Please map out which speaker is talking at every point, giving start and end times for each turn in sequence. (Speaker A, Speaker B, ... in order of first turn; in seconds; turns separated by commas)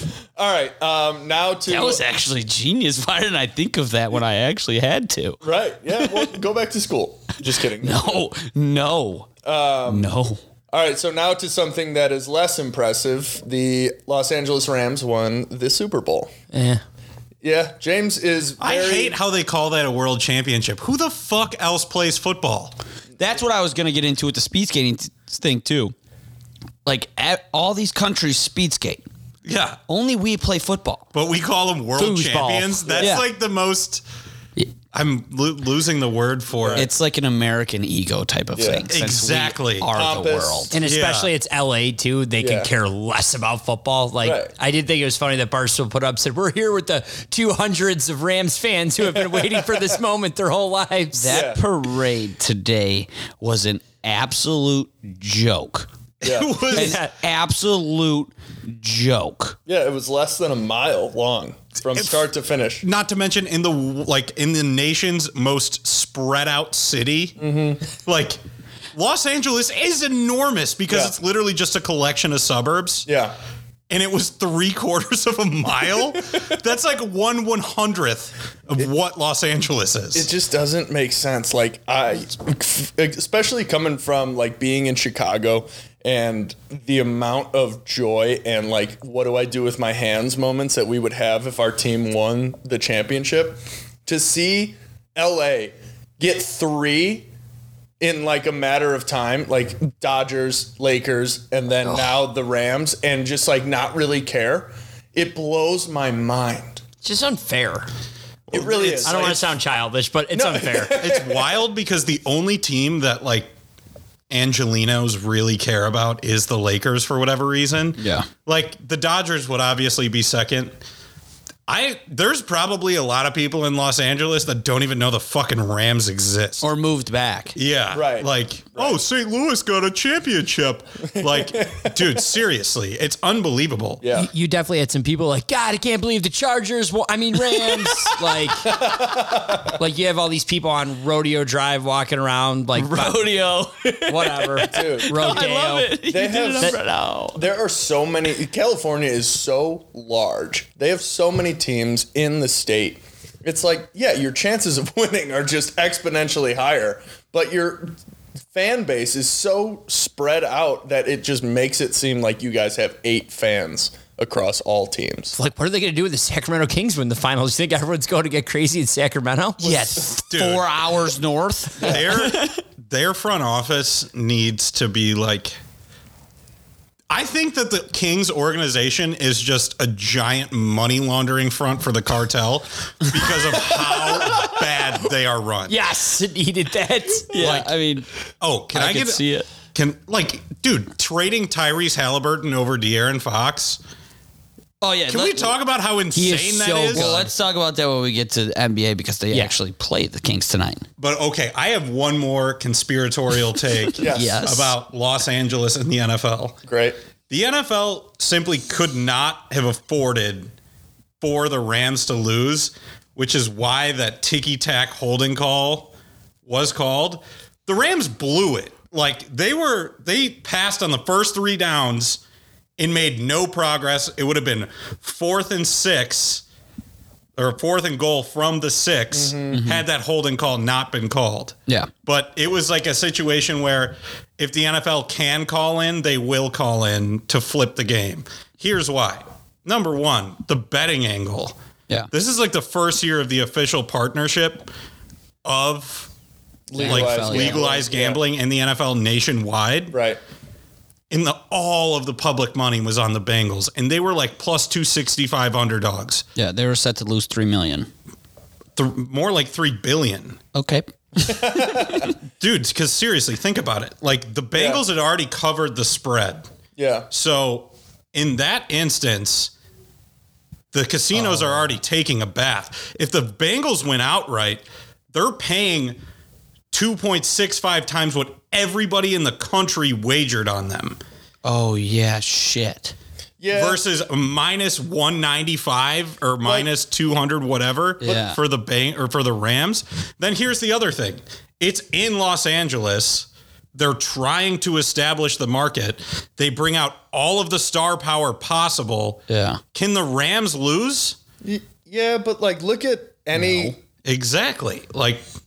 Speaker A: 0.3-2.0, Speaker B: 1.6-5.4, Speaker A: 5.4-8.2, Speaker B: 7.8-9.3, Speaker A: 9.4-10.1, Speaker B: 9.8-10.4, Speaker A: 10.7-16.3, Speaker C: 16.5-16.8, Speaker A: 17.4-19.1, Speaker D: 18.6-22.7, Speaker B: 23.2-25.9, Speaker B: 26.8-29.0, Speaker D: 29.4-29.8, Speaker B: 29.9-31.1, Speaker D: 31.1-34.0, Speaker C: 32.0-32.9, Speaker A: 32.8-33.2, Speaker D: 34.9-36.9, Speaker A: 36.5-36.9, Speaker B: 36.7-40.8, Speaker A: 38.5-38.9, Speaker D: 38.9-39.9, Speaker A: 39.9-40.8, Speaker C: 40.7-51.4, Speaker D: 40.8-41.3, Speaker A: 42.4-42.7, Speaker A: 44.2-44.5, Speaker A: 49.0-49.9, Speaker B: 51.1-55.9, Speaker A: 51.3-51.6, Speaker A: 56.2-56.7, Speaker D: 56.2-57.0, Speaker B: 56.7-59.6, Speaker A: 59.6-62.8, Speaker D: 61.9-62.2, Speaker D: 62.8-68.4, Speaker A: 67.4-67.8, Speaker D: 68.9-73.1, Speaker A: 70.9-71.1, Speaker A: 73.0-73.3, Speaker D: 73.9-80.3, Speaker A: 80.1-97.3, Speaker A: 98.0-106.8, Speaker C: 101.8-102.1, Speaker C: 107.0-107.9, Speaker A: 108.5-109.5, Speaker D: 108.5-109.3, Speaker C: 109.0-111.0, Speaker A: 110.3-111.6, Speaker D: 111.0-113.5, Speaker D: 114.3-120.8, Speaker B: 118.0-118.3, Speaker D: 121.7-126.7, Speaker B: 126.6-127.5, Speaker D: 127.5-134.0, Speaker A: 127.9-129.0, Speaker A: 131.2-132.2, Speaker A: 134.0-134.3, Speaker C: 134.1-139.0, Speaker B: 137.8-138.1, Speaker A: 138.6-139.8, Speaker C: 139.6-143.2, Speaker B: 142.8-147.4, Speaker C: 144.1-146.0, Speaker A: 144.7-145.4, Speaker A: 146.1-158.0, Speaker A: 158.5-165.3, Speaker C: 165.3-169.6, Speaker B: 169.6-172.6, Speaker D: 169.9-170.7, Speaker D: 171.8-175.6, Speaker D: 177.1-185.8, Speaker C: 185.7-187.5, Speaker B: 187.3-188.1, Speaker D: 187.3-187.7, Speaker D: 188.4-193.8, Speaker B: 188.7-189.5, Speaker B: 194.8-195.5, Speaker D: 195.1-197.1, Speaker C: 196.1-197.3, Speaker B: 196.9-200.8, Speaker D: 201.0-206.6, Speaker B: 203.9-204.7, Speaker A: 203.9-204.4, Speaker A: 206.6-207.0, Speaker D: 207.3-210.5, Speaker D: 211.2-215.9, Speaker D: 216.4-222.2, Speaker D: 222.8-226.4, Speaker D: 227.4-241.6, Speaker A: 229.1-229.6, Speaker B: 229.5-229.8, Speaker D: 242.1-244.7, Speaker D: 245.4-246.1, Speaker A: 246.7-248.2, Speaker B: 246.7-247.7, Speaker D: 246.8-250.0, Speaker A: 249.9-250.2, Speaker D: 251.1-256.2, Speaker B: 256.4-257.9, Speaker D: 258.8-260.4, Speaker B: 260.5-262.1, Speaker A: 261.2-262.1, Speaker D: 262.4-266.4, Speaker A: 264.5-264.8, Speaker A: 266.8-267.1, Speaker D: 267.1-269.5, Speaker D: 270.7-276.0, Speaker D: 276.7-281.0, Speaker B: 281.4-282.9, Speaker A: 283.4-283.8, Speaker D: 283.5-301.2, Speaker B: 288.0-288.4, Speaker B: 299.3-299.6, Speaker A: 301.4-303.8, Speaker B: 303.4-303.7, Speaker D: 304.0-305.2